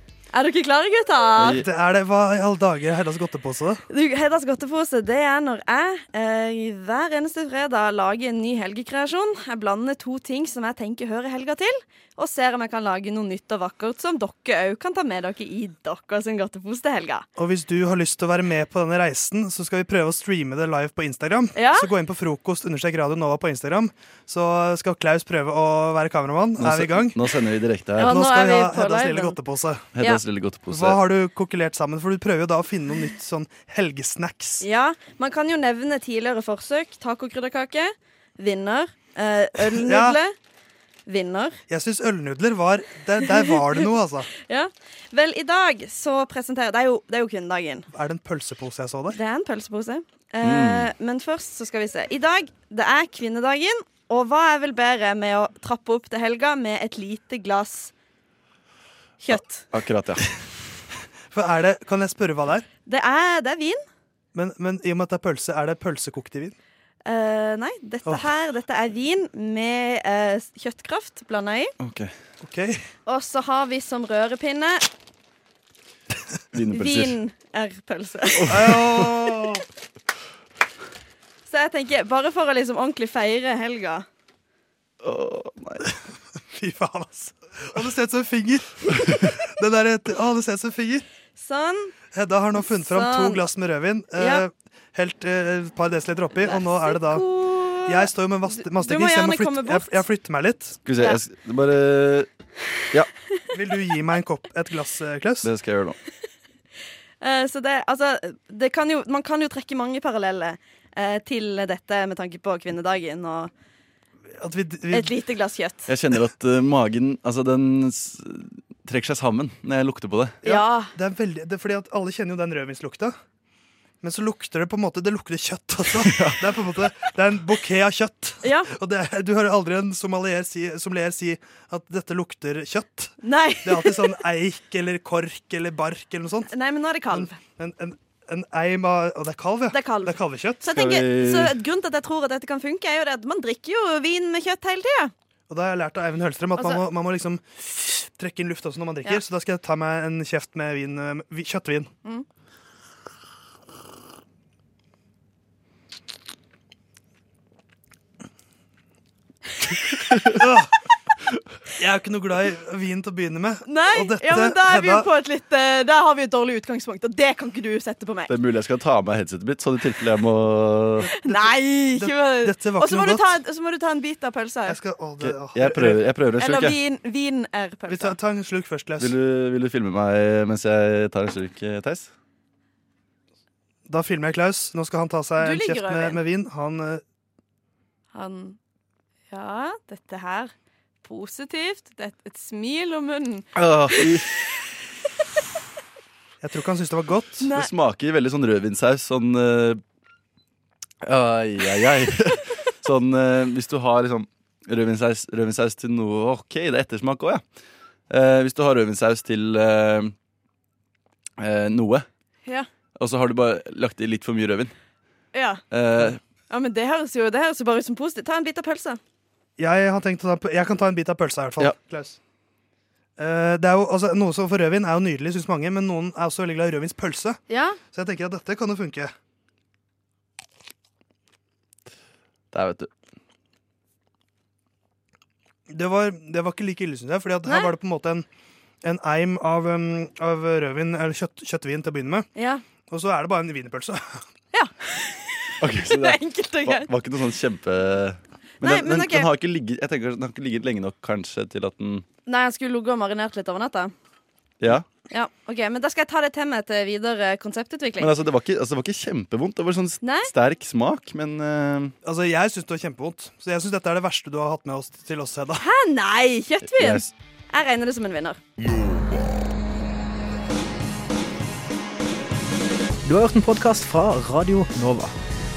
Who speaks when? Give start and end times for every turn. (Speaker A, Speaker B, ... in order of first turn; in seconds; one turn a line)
Speaker A: 0.3-1.6
Speaker B: 1.4-1.6
Speaker C: 1.6-3.8
Speaker A: 3.9-17.3
Speaker C: 17.4-27.2
Speaker A: 21.6-21.9
Speaker B: 26.6-28.1
Speaker A: 28.0-29.4
Speaker C: 28.0-29.9
Speaker B: 29.9-31.0
Speaker C: 30.7-34.6
Speaker A: 34.6-40.4
Speaker C: 39.8-40.2
Speaker A: 41.1-41.6
Speaker C: 41.7-44.3
Speaker A: 43.3-43.8
Speaker A: 44.4-47.9
Speaker C: 47.9-49.2
Speaker A: 49.1-57.9
Speaker B: 50.4-50.9
Speaker A: 59.2-59.7
Speaker B: 59.7-60.2
Speaker C: 61.3-62.7
Speaker A: 62.9-63.8
Speaker C: 64.3-66.6
Speaker A: 67.0-71.7
Speaker B: 71.8-72.1
Speaker C: 72.4-72.8
Speaker A: 73.1-74.9
Speaker B: 76.5-77.2
Speaker A: 76.7-79.3
Speaker B: 78.4-79.0
Speaker C: 78.5-79.6
Speaker A: 81.5-84.1
Speaker B: 85.0-85.9
Speaker C: 86.5-91.1
Speaker A: 91.4-92.0
Speaker C: 92.1-97.3
Speaker A: 92.6-93.5
Speaker A: 94.2-94.5
Speaker A: 96.3-100.0
Speaker C: 97.9-100.8
Speaker B: 100.8-102.3
Speaker A: 100.9-101.2
Speaker C: 103.5-105.5
Speaker B: 105.4-106.0
Speaker A: 107.2-113.5
Speaker C: 114.4-115.2
Speaker A: 114.9-115.9
Speaker B: 115.9-120.4
Speaker A: 120.4-120.9
Speaker C: 120.4-123.2
Speaker C: 124.0-136.5
Speaker B: 126.0-126.5
Speaker A: 128.4-128.7
Speaker A: 133.2-134.2
Speaker A: 136.5-137.4
Speaker C: 137.1-140.7
Speaker A: 139.7-145.1
Speaker B: 140.7-141.6
Speaker C: 145.5-147.4
Speaker A: 146.6-146.8
Speaker C: 148.1-151.9
Speaker C: 160.4-160.7
Speaker C: 161.8-165.1
Speaker A: 163.7-168.3
Speaker B: 168.3-171.1
Speaker C: 171.1-173.3
Speaker A: 171.2-174.8
Speaker C: 174.7-176.1
Speaker B: 175.2-176.8
Speaker A: 176.4-178.2
Speaker C: 177.9-179.2
Speaker B: 179.0-182.1
Speaker C: 183.9-187.0
Speaker A: 185.4-186.2
Speaker A: 188.1-188.6
Speaker A: 189.3-190.5
Speaker A: 191.0-194.2
Speaker B: 193.6-194.3
Speaker C: 196.4-197.5
Speaker A: 197.4-197.7
Speaker B: 197.5-199.8
Speaker B: 201.0-207.4
Speaker B: 208.1-210.1
Speaker B: 211.4-212.1
Speaker B: 213.0-214.7
Speaker A: 215.3-215.6
Speaker B: 215.7-216.2
Speaker A: 216.5-219.0
Speaker C: 219.6-222.2
Speaker C: 223.2-229.1
Speaker A: 227.5-227.8
Speaker B: 232.5-232.9
Speaker C: 235.7-238.3
Speaker A: 237.4-237.7
Speaker C: 238.8-242.3
Speaker A: 242.4-242.6
Speaker C: 242.9-244.2
Speaker A: 244.5-246.9
Speaker B: 245.6-252.1
Speaker A: 248.6-249.3
Speaker A: 252.3-253.9
Speaker B: 254.6-254.9
Speaker A: 255.1-258.1
Speaker B: 258.0-261.9
Speaker A: 260.0-260.3
Speaker C: 262.0-265.6
Speaker A: 265.6-268.4
Speaker B: 266.6-267.1
Speaker D: 273.1-275.1